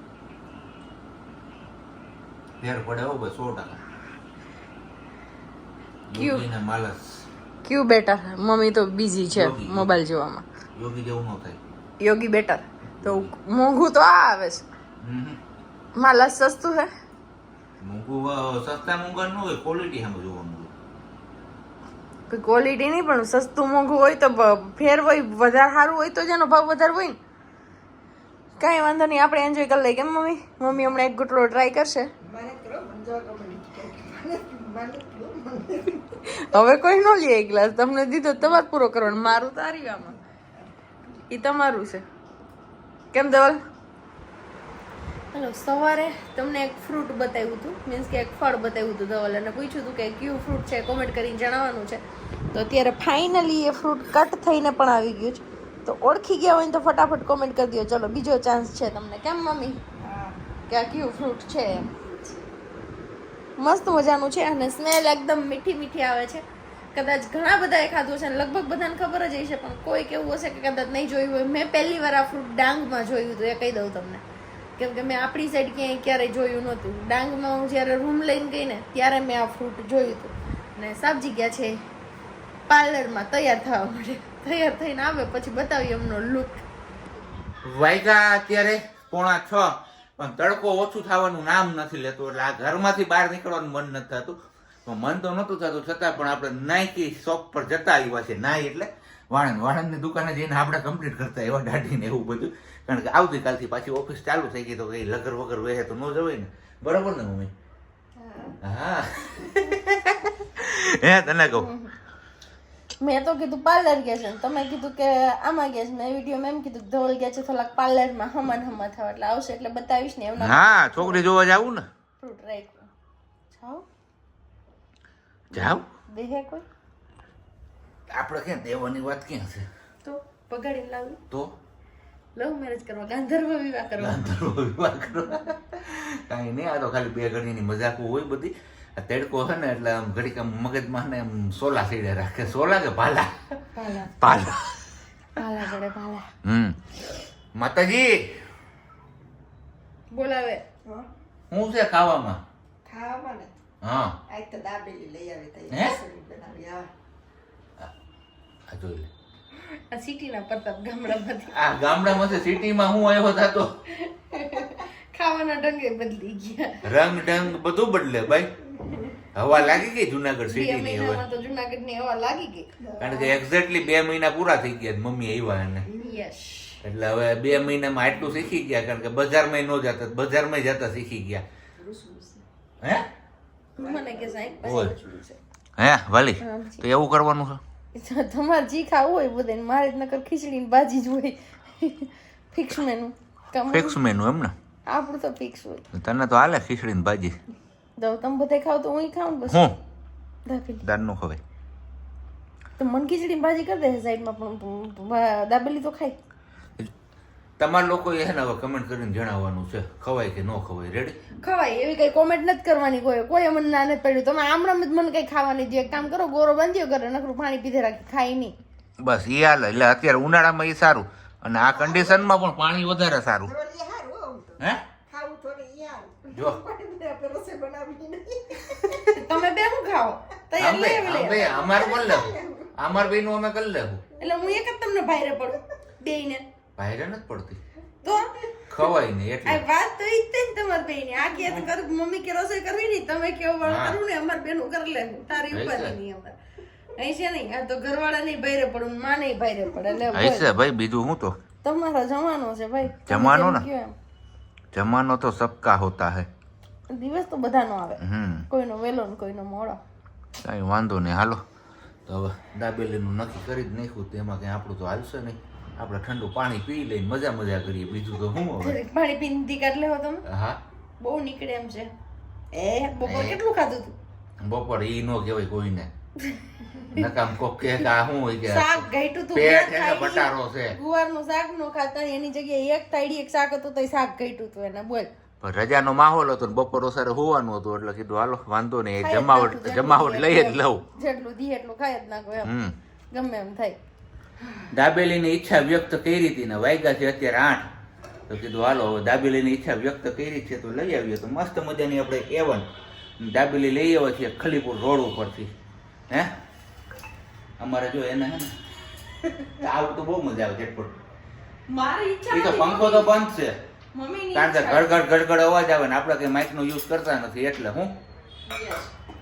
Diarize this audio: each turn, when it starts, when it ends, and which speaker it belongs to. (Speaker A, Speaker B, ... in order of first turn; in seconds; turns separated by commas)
Speaker A: 2.6-3.8, Speaker A: 6.1-7.3, Speaker B: 6.1-6.5, Speaker B: 7.7-10.4, Speaker A: 9.3-10.0, Speaker A: 10.8-11.6, Speaker B: 12.0-14.7, Speaker A: 13.0-13.3, Speaker A: 15.0-15.4, Speaker B: 15.9-16.9, Speaker A: 17.8-20.7, Speaker B: 22.3-27.2, Speaker B: 28.6-32.1, Speaker C: 32.2-36.2, Speaker B: 36.4-40.2, Speaker B: 41.3-42.0, Speaker B: 43.1-43.6, Speaker B: 45.3-59.8, Speaker C: 60.0-60.4, Speaker B: 60.7-61.9, Speaker C: 62.0-62.5, Speaker B: 63.6-74.2, Speaker B: 74.8-81.8, Speaker B: 82.7-86.6, Speaker A: 87.7-107.5, Speaker C: 108.2-108.6, Speaker A: 108.6-111.7, Speaker B: 111.5-111.9, Speaker B: 113.0-121.3, Speaker A: 120.4-121.9, Speaker B: 122.2-122.9, Speaker B: 123.5-123.9, Speaker A: 125.5-125.8, Speaker B: 125.5-126.7, Speaker A: 128.1-129.7, Speaker B: 130.0-131.2, Speaker B: 132.4-134.3, Speaker A: 134.0-143.4, Speaker B: 143.8-144.2, Speaker A: 144.2-144.7, Speaker B: 145.3-146.3, Speaker A: 146.4-146.8, Speaker A: 147.6-148.3, Speaker B: 150.1-150.7, Speaker A: 151.5-152.4, Speaker C: 152.8-153.5, Speaker A: 153.8-154.2, Speaker C: 154.3-156.9, Speaker A: 155.7-156.0, Speaker A: 158.7-159.1, Speaker B: 159.7-161.5, Speaker A: 161.5-163.7, Speaker B: 163.9-167.4, Speaker A: 166.8-168.5, Speaker A: 169.3-171.2, Speaker B: 169.5-169.8, Speaker B: 170.5-172.7, Speaker C: 172.8-173.3, Speaker A: 173.0-175.9, Speaker C: 175.9-176.2, Speaker B: 175.9-176.8, Speaker A: 176.8-181.4, Speaker C: 181.8-182.4, Speaker B: 183.8-185.4, Speaker C: 183.8-184.6, Speaker A: 184.6-184.9, Speaker A: 185.8-187.6, Speaker B: 186.4-186.8, Speaker B: 187.9-194.0, Speaker A: 193.7-194.5, Speaker B: 194.9-195.8, Speaker A: 195.9-197.4, Speaker B: 198.0-199.8, Speaker A: 199.5-199.8, Speaker B: 200.5-200.8, Speaker A: 200.8-201.4, Speaker B: 202.8-206.2, Speaker A: 207.6-211.2, Speaker B: 211.4-218.6, Speaker A: 219.0-223.5, Speaker C: 221.7-222.3, Speaker C: 223.4-229.0, Speaker A: 226.3-226.6, Speaker B: 229.1-231.9, Speaker A: 230.6-234.0, Speaker C: 231.4-232.9, Speaker C: 234.1-234.4, Speaker B: 234.2-236.4, Speaker A: 236.8-237.6, Speaker B: 238.0-238.9, Speaker A: 238.7-239.6, Speaker B: 239.5-246.3, Speaker A: 243.6-244.0, Speaker A: 245.5-246.0, Speaker B: 247.0-250.5, Speaker A: 250.1-251.4, Speaker B: 251.6-253.9, Speaker A: 252.9-253.7, Speaker A: 254.7-256.3, Speaker B: 256.9-259.8, Speaker A: 258.0-258.5, Speaker A: 260.4-261.4, Speaker A: 262.1-268.8, Speaker B: 268.6-270.2, Speaker A: 270.2-270.6, Speaker B: 271.0-271.9, Speaker B: 272.5-273.9, Speaker A: 273.0-273.4, Speaker A: 274.4-275.9, Speaker B: 276.2-277.1, Speaker A: 276.9-280.8, Speaker B: 278.5-285.1, Speaker A: 285.4-290.9, Speaker B: 289.0-292.5, Speaker A: 292.4-292.8, Speaker B: 293.1-293.8, Speaker A: 294.7-297.6, Speaker A: 298.3-302.7, Speaker A: 303.2-305.5, Speaker A: 307.6-308.5, Speaker A: 309.6-311.0, Speaker B: 311.7-313.1, Speaker A: 312.3-313.6, Speaker B: 313.9-314.9, Speaker A: 314.3-318.0, Speaker B: 318.5-318.9